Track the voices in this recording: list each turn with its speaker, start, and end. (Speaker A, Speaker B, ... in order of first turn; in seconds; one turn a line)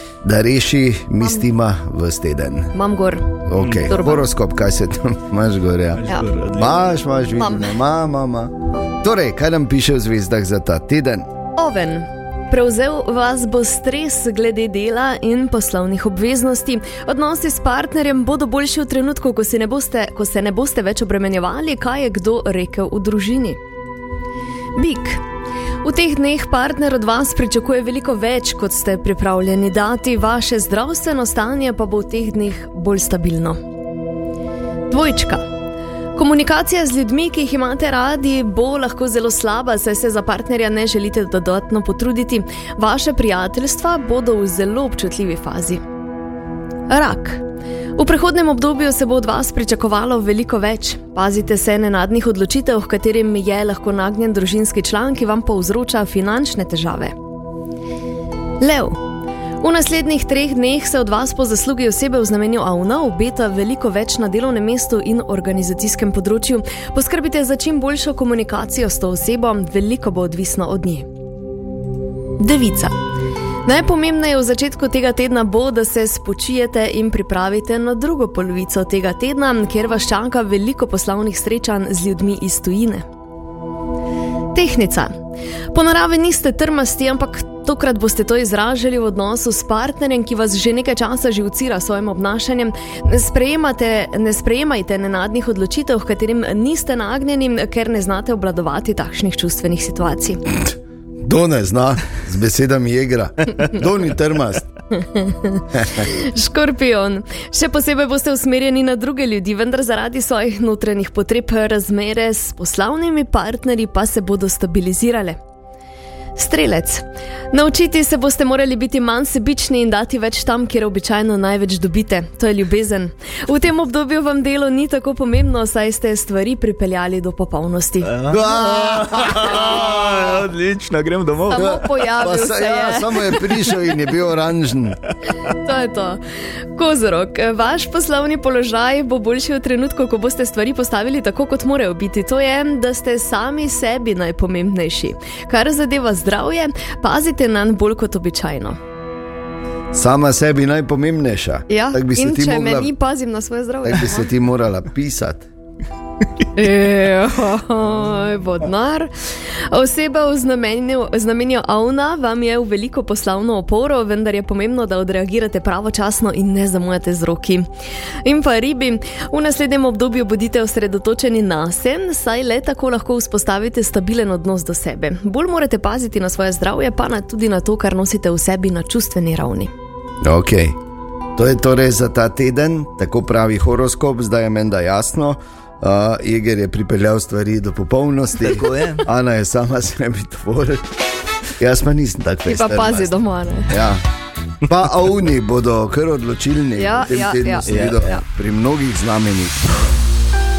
Speaker A: 0.2-2.7
Speaker B: 2.7-4.2
Speaker A: 3.5-11.3
Speaker C: 3.6-3.9
Speaker C: 5.9-7.0
Speaker B: 7.4-7.7
Speaker B: 11.6-23.6
Speaker B: 24.8-25.2
Speaker B: 25.8-33.6
Speaker B: 34.9-35.5
Speaker B: 36.2-45.8
Speaker B: 46.9-47.4
Speaker B: 48.0-57.1
Speaker B: 58.6-59.0
Speaker B: 59.6-71.1
Speaker B: 72.4-72.9
Speaker B: 73.7-83.1
Speaker B: 84.5-85.1
Speaker B: 85.7-100.4
Speaker A: 101.2-104.7
Speaker B: 104.9-115.4
Speaker B: 116.4-128.1
Speaker C: 128.0-131.9
Speaker A: 128.3-130.2
Speaker B: 131.5-133.4
Speaker A: 131.5-135.0
Speaker B: 135.6-136.2
Speaker B: 136.7-148.8
Speaker A: 149.9-152.9
Speaker B: 151.7-154.3
Speaker A: 153.8-155.5
Speaker B: 156.6-159.1
Speaker B: 159.7-167.7
Speaker B: 168.2-179.7
Speaker A: 180.2-180.8
Speaker A: 181.4-190.9
Speaker C: 188.4-189.0
Speaker A: 191.6-193.1
Speaker B: 192.5-193.7
Speaker A: 193.7-194.1
Speaker A: 194.7-199.7
Speaker B: 196.8-198.2
Speaker C: 197.7-198.0